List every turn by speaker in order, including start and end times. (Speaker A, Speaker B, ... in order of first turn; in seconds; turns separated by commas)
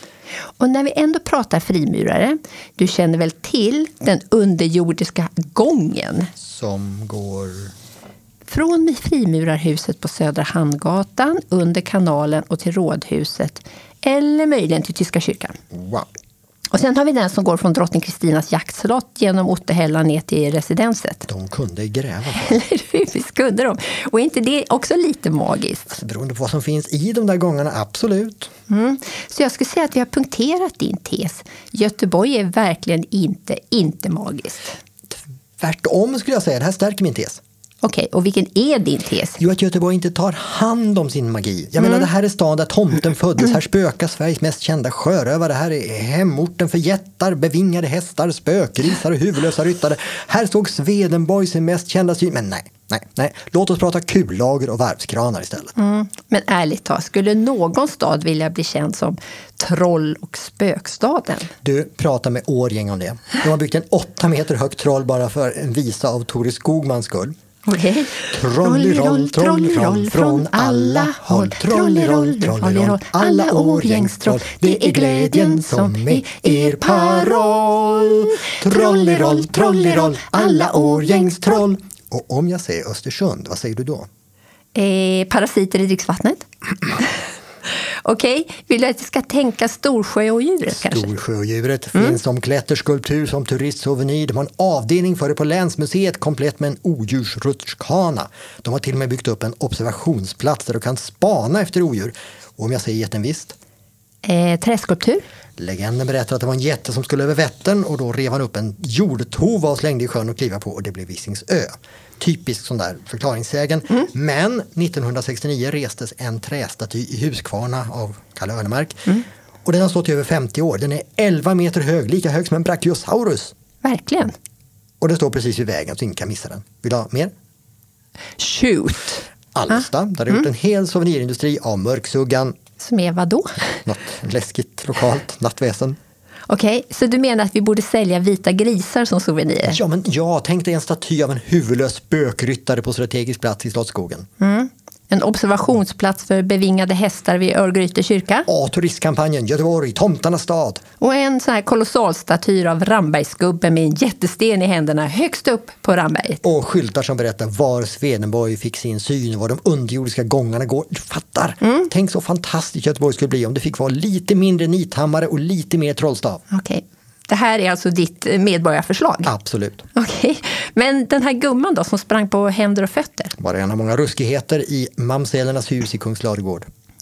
Speaker A: 0.6-6.3, Speaker B: 6.4-7.7, Speaker A: 8.5-15.6, Speaker B: 15.7-16.1, Speaker A: 16.7-21.3, Speaker B: 21.3-22.6, Speaker A: 22.3-25.9, Speaker B: 25.9-28.5, Speaker A: 28.7-34.8, Speaker B: 35.1-37.4, Speaker A: 37.8-39.4, Speaker B: 39.4-55.7, Speaker A: 55.8-61.5, Speaker B: 61.6-67.4, Speaker A: 67.7-81.6, Speaker B: 68.3-84.1, Speaker A: 84.8-86.4, Speaker A: 87.7-91.1, Speaker B: 90.7-103.6, Speaker A: 104.2-105.2, Speaker B: 105.6-123.5, Speaker A: 123.8-124.3, Speaker B: 125.0-127.3, Speaker A: 128.4-129.3, Speaker B: 129.6-132.6, Speaker A: 132.8-133.8, Speaker B: 133.8-136.0, Speaker A: 136.5-139.8, Speaker B: 139.7-144.3, Speaker A: 144.4-148.5, Speaker B: 148.5-150.8, Speaker A: 151.0-156.4, Speaker B: 156.4-166.4, Speaker A: 161.6-161.9, Speaker A: 166.5-169.3, Speaker B: 169.3-169.9, Speaker A: 169.9-173.3, Speaker B: 173.4-176.7